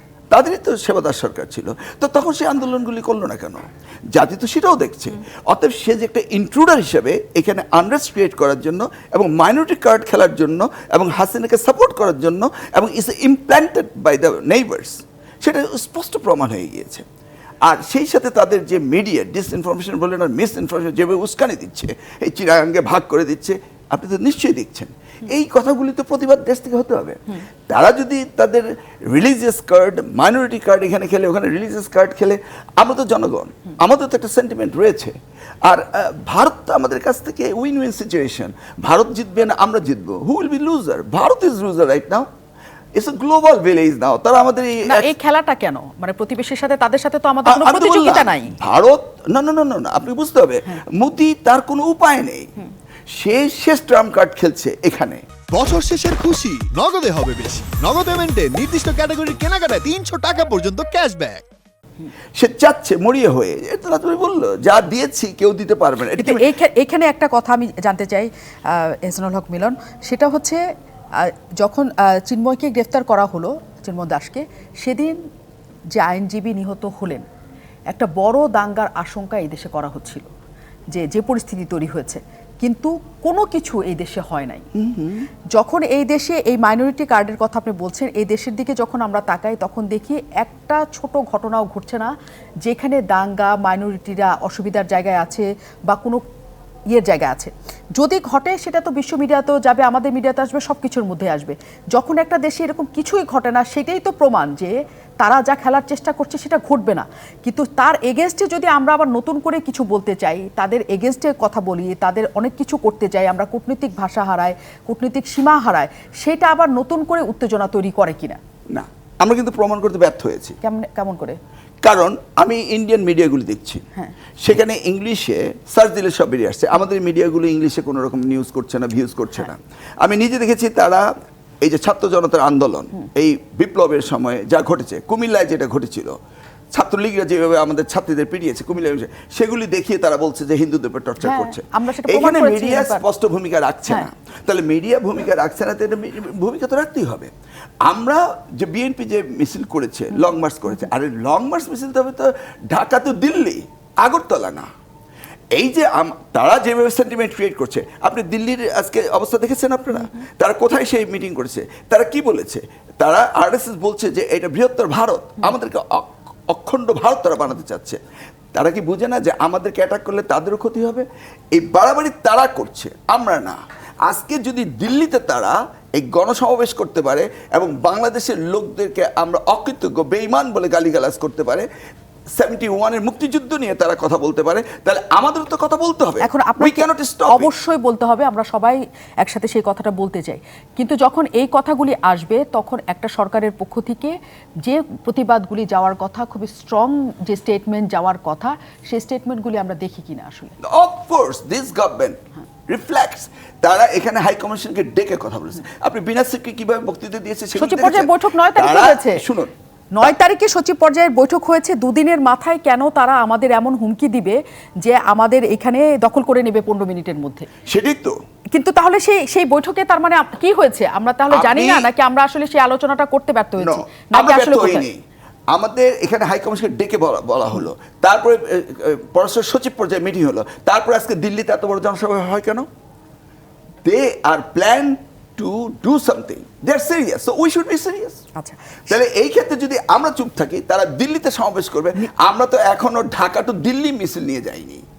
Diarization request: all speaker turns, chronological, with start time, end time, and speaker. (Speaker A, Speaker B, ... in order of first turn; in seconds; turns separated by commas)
Speaker A: 0.3-17.1, Speaker A: 17.6-35.1, Speaker A: 35.6-42.3, Speaker A: 43.0-45.1, Speaker B: 44.9-48.5, Speaker A: 47.5-52.5, Speaker A: 53.1-55.3, Speaker C: 55.5-61.5, Speaker A: 62.4-66.5, Speaker B: 66.2-70.6, Speaker B: 71.2-75.2, Speaker B: 76.0-77.2, Speaker B: 77.9-80.3, Speaker B: 80.9-84.6, Speaker A: 84.7-85.3, Speaker B: 85.5-92.1, Speaker B: 92.7-96.2, Speaker B: 96.9-118.4, Speaker A: 118.7-120.6, Speaker B: 120.6-121.4, Speaker A: 121.8-123.8, Speaker A: 124.4-131.1, Speaker A: 131.6-136.2, Speaker A: 136.7-147.3, Speaker B: 141.2-143.0, Speaker A: 147.8-154.7, Speaker A: 155.5-168.0, Speaker B: 159.9-160.3, Speaker A: 168.6-181.7, Speaker A: 182.4-187.5, Speaker B: 186.2-200.6, Speaker A: 200.6-209.5, Speaker B: 207.6-209.2, Speaker B: 209.9-217.5, Speaker A: 217.7-218.2, Speaker B: 218.6-224.9, Speaker A: 221.3-221.9, Speaker A: 223.6-225.0, Speaker A: 225.5-232.7, Speaker A: 233.8-238.2, Speaker B: 238.4-238.7, Speaker A: 238.9-244.8